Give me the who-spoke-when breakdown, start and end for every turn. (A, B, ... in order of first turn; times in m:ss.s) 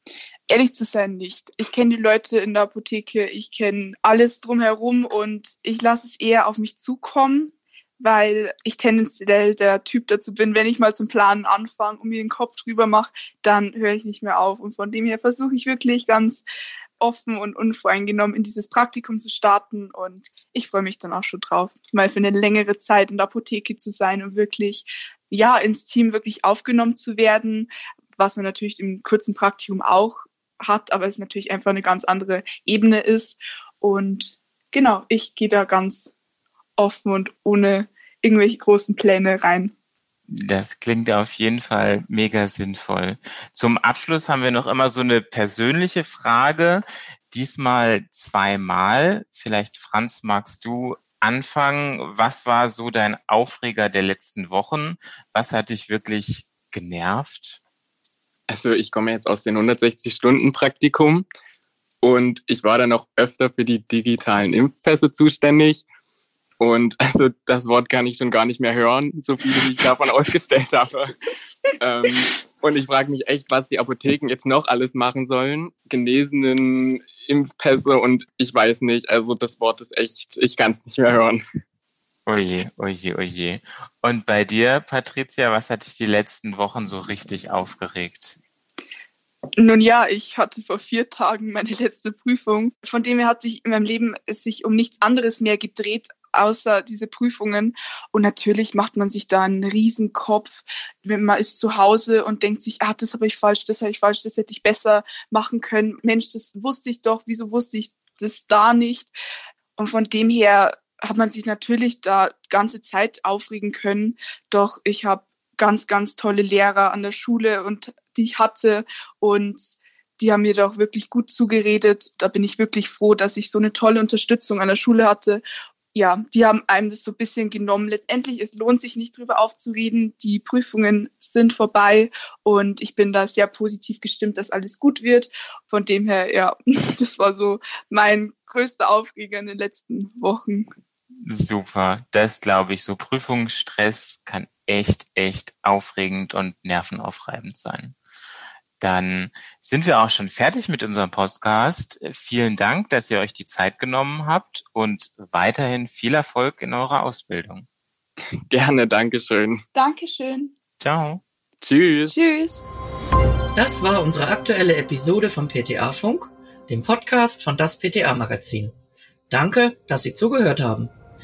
0:00.5-0:16.4 A
0:17.0-0:36.1 A
0:36.8-0:39.7 A
0:40.3-0:57.6 B
0:58.5-1:01.2 C
1:02.0-1:05.8 C
1:06.6-1:11.1 C
1:11.8-1:21.4 C
1:22.2-1:28.4 B
1:29.6-1:49.1 A
1:49.8-2:05.4 A
2:05.9-2:20.7 A
2:21.2-2:28.0 B
2:28.8-2:37.6 B
2:38.5-2:39.6 C
2:39.7-2:40.5 A
2:40.8-2:41.2 B
2:41.6-2:42.2 C
2:42.1-2:42.6 A
2:43.5-2:48.7 D
2:49.3-2:50.9 D